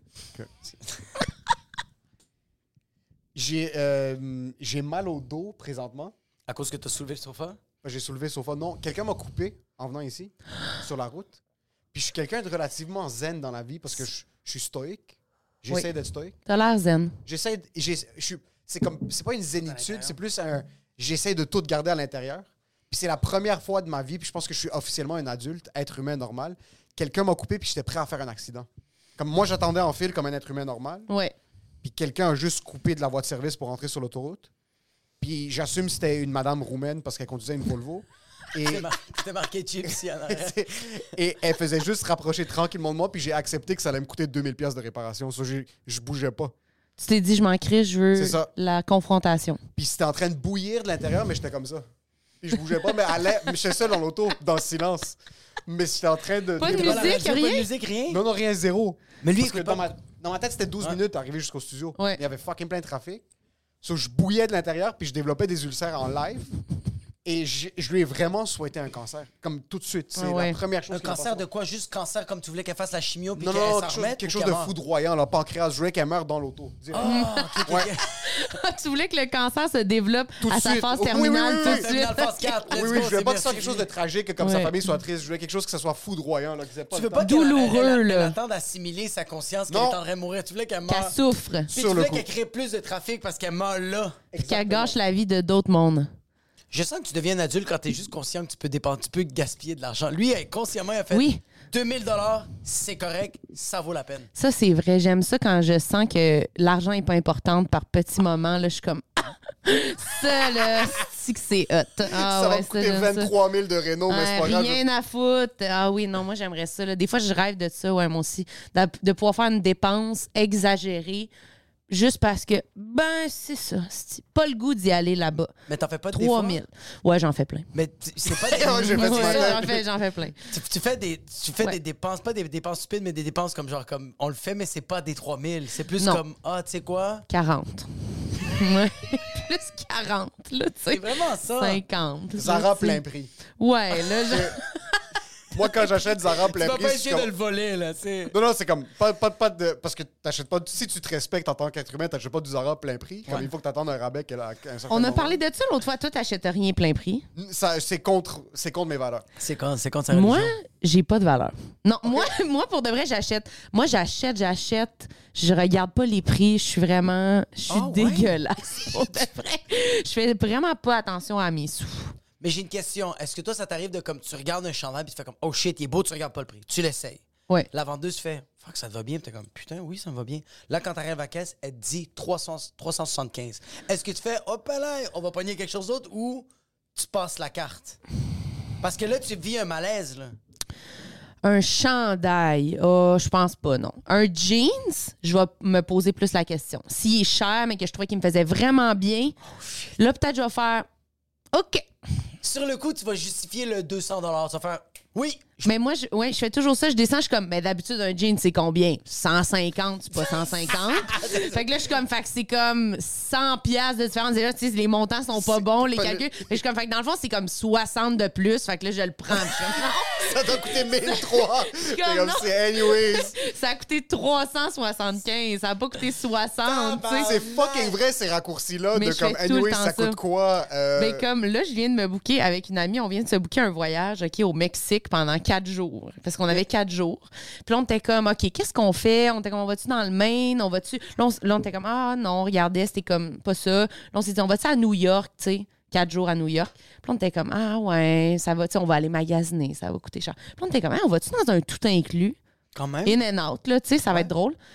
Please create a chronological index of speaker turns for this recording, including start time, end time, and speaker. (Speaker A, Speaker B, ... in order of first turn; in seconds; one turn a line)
Speaker A: 3.3-6.1
Speaker B: 6.5-7.6
Speaker A: 7.8-11.4
Speaker A: 11.9-15.1
Speaker A: 15.6-16.3
Speaker C: 16.5-17.2
Speaker A: 17.2-31.1
Speaker B: 19.6-20.1
Speaker C: 31.1-31.3
Speaker A: 31.8-34.5
Speaker A: 35.2-38.9
Speaker B: 38.6-40.8
Speaker A: 39.9-46.5
Speaker C: 47.0-49.6
Speaker A: 48.1-48.5
Speaker A: 49.8-51.8
Speaker A: 52.4-57.2
Speaker C: 56.6-57.7
Speaker B: 56.6-58.2
Speaker A: 58.1-63.2
Speaker B: 59.2-59.9
Speaker A: 63.8-66.5
Speaker A: 67.2-71.4
Speaker C: 70.2-70.6
Speaker B: 70.9-74.7
Speaker A: 73.3-77.1
Speaker B: 76.9-78.1
Speaker C: 77.0-77.5
Speaker A: 77.6-77.9
Speaker C: 78.2-82.6
Speaker A: 80.4-81.9
Speaker B: 81.6-83.9
Speaker A: 82.7-87.3
Speaker C: 84.4-84.8
Speaker B: 86.9-91.2
Speaker C: 87.2-88.3
Speaker A: 89.7-90.0
Speaker C: 90.9-91.7
Speaker B: 91.7-94.2
Speaker A: 91.7-92.2
Speaker A: 94.3-95.0
Speaker C: 94.4-96.1
Speaker B: 96.7-104.3
Speaker C: 101.1-101.4
Speaker C: 104.3-113.3
Speaker A: 112.1-114.8
Speaker C: 114.1-121.3
Speaker C: 121.9-125.5
Speaker B: 125.7-126.6
Speaker C: 126.1-127.7
Speaker B: 127.7-129.8
Speaker A: 128.4-129.8
Speaker C: 128.7-130.4
Speaker B: 130.5-137.2
Speaker C: 137.3-141.1
Speaker B: 140.9-141.8
Speaker C: 141.6-143.0
Speaker A: 142.4-143.3
Speaker C: 143.6-144.5
Speaker A: 144.3-144.6
Speaker A: 145.5-147.3
Speaker B: 146.5-148.3
Speaker A: 148.3-155.4
Speaker C: 154.9-157.3
Speaker A: 157.3-159.2
Speaker B: 159.4-160.5
Speaker C: 160.1-172.1
Speaker B: 167.7-168.3
Speaker B: 172.4-188.0
Speaker B: 188.8-190.4
Speaker C: 191.4-199.3
Speaker B: 199.5-199.9
Speaker C: 200.0-200.9
Speaker C: 201.5-201.9
Speaker B: 202.4-205.7
Speaker C: 205.6-220.2
Speaker A: 211.0-211.6
Speaker A: 215.3-216.5
Speaker A: 219.7-223.3
Speaker C: 221.0-227.3
Speaker B: 226.6-227.9
Speaker A: 227.2-231.2
Speaker C: 228.9-230.2
Speaker C: 230.9-252.4
Speaker B: 252.7-253.2
Speaker C: 253.0-254.6